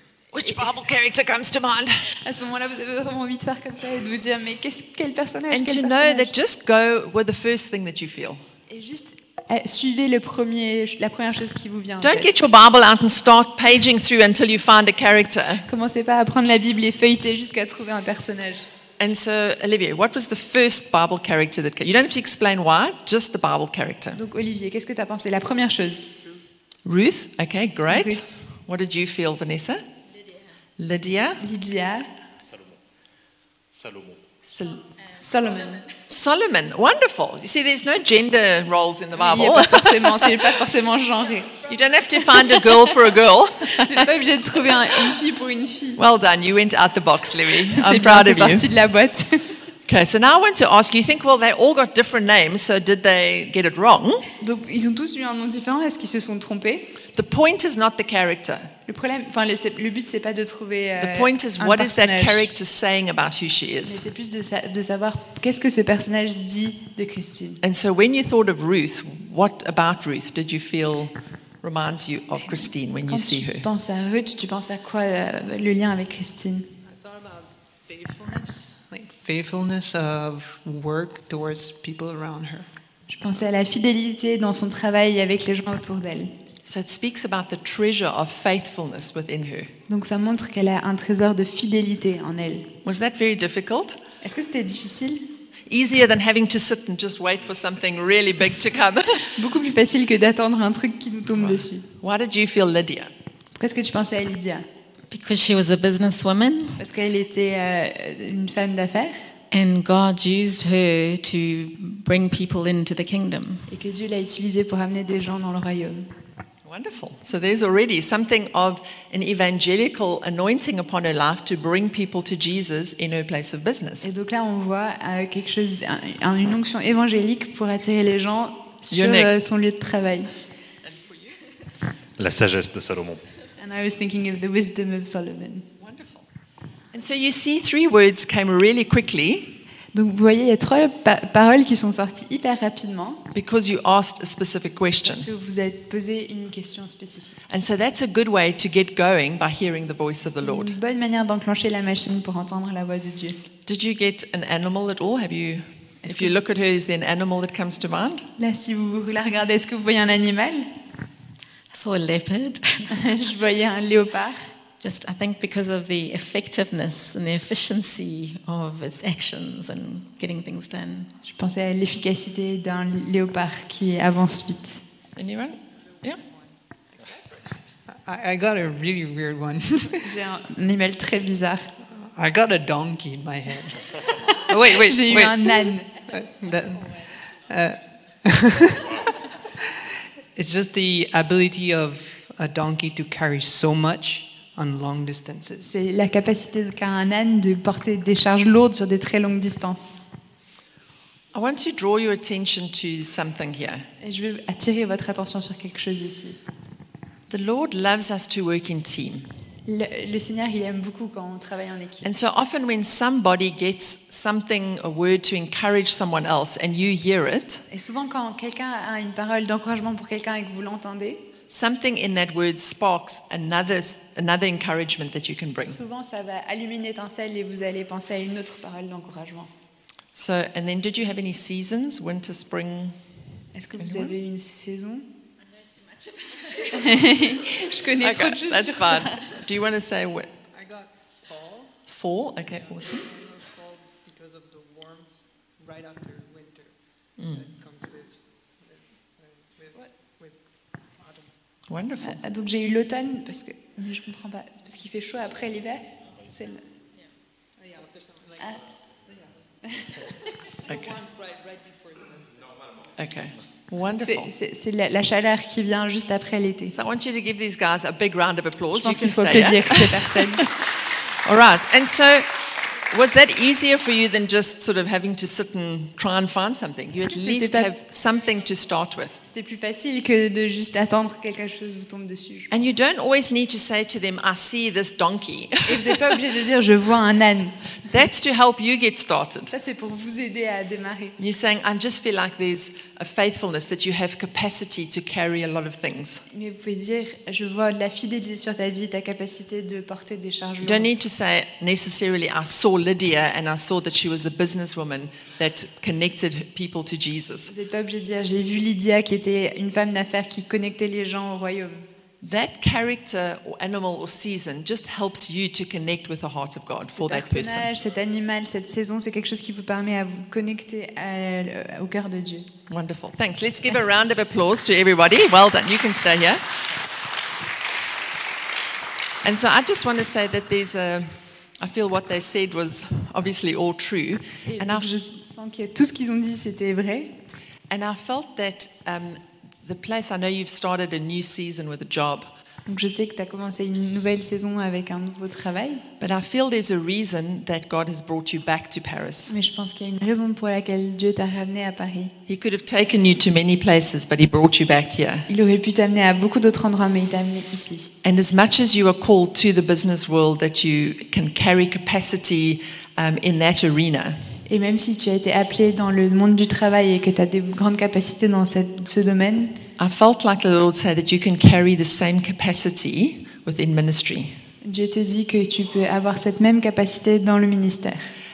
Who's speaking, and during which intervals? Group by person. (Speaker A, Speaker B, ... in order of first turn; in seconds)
Speaker A: 0.3-2.0, 5.5-8.4, 12.0-15.7, 19.0-24.2, 26.8-29.8, 30.8-31.4, 34.4-34.9, 35.9-40.5, 41.6-44.1, 46.0-48.7, 49.9-54.3, 57.1-58.7, 61.0-64.0, 67.6-73.7, 86.6-89.7, 92.8-94.0, 95.7-99.3, 101.4-103.1, 116.6-124.1, 128.9-129.4, 130.8-131.4, 135.8-136.3, 136.9-139.6, 143.3-145.3, 147.5-150.8, 153.7-158.3, 175.2-176.2, 201.3-203.9, 207.3-209.3, 212.0-217.6, 221.5-225.8, 230.1-233.0, 233.8-234.1, 238.0-240.3, 241.9-243.1, 247.2-247.4, 251.7-252.2, 260.7-261.0, 263.0-264.3, 266.7-270.7, 271.2-279.2, 282.5-286.0, 287.9-289.5, 291.2-296.2, 300.6-307.5, 312.2-317.7, 322.7-326.6, 329.2-334.9, 337.7-342.3, 346.0-349.3, 352.3-355.3, 358.0-364.2, 369.8-374.4
Speaker B: 0.4-0.7, 2.2-6.3, 8.7-12.4, 15.7-18.7, 24.1-26.1, 27.9-28.5, 31.4-32.1, 35.1-35.9, 39.2-41.6, 42.3-42.7, 43.7-46.0, 47.7-49.5, 54.4-57.0, 58.9-62.5, 63.8-67.6, 72.5-76.7, 83.1-86.3, 89.9-92.7, 94.2-95.3, 99.3-101.8, 103.5-104.7, 106.8-109.3, 113.7-116.1, 124.0-130.3, 133.6-135.7, 139.9-143.3, 145.0-147.4, 150.4-153.4, 156.0-156.4, 158.4-160.7, 162.9-164.5, 171.2-174.8, 180.0-181.7, 184.6-185.9, 195.7-200.1, 204.0-206.4, 209.7-212.1, 217.7-221.2, 225.6-229.5, 233.5-235.1, 236.6-239.4, 252.0-256.6, 263.9-266.7, 268.7-270.4, 277.1-277.7, 279.2-282.7, 285.7-287.9, 289.5-291.2, 296.3-301.0, 307.5-311.9, 316.9-322.5, 334.4-337.1, 342.7-345.9, 349.3-352.2, 355.3-357.9, 364.4-369.6, 374.6-378.1
Speaker C: 32.4-32.7, 33.7-34.3, 132.2-133.2
Speaker D: 76.9-82.7, 177.9-180.1, 181.9-189.0, 190.3-195.7, 240.5-241.8, 242.6-250.4, 251.0-251.3, 257.6-258.6, 260.6-262.3
Speaker E: 105.1-106.8, 109.5-113.7, 161.7-162.9, 164.8-171.1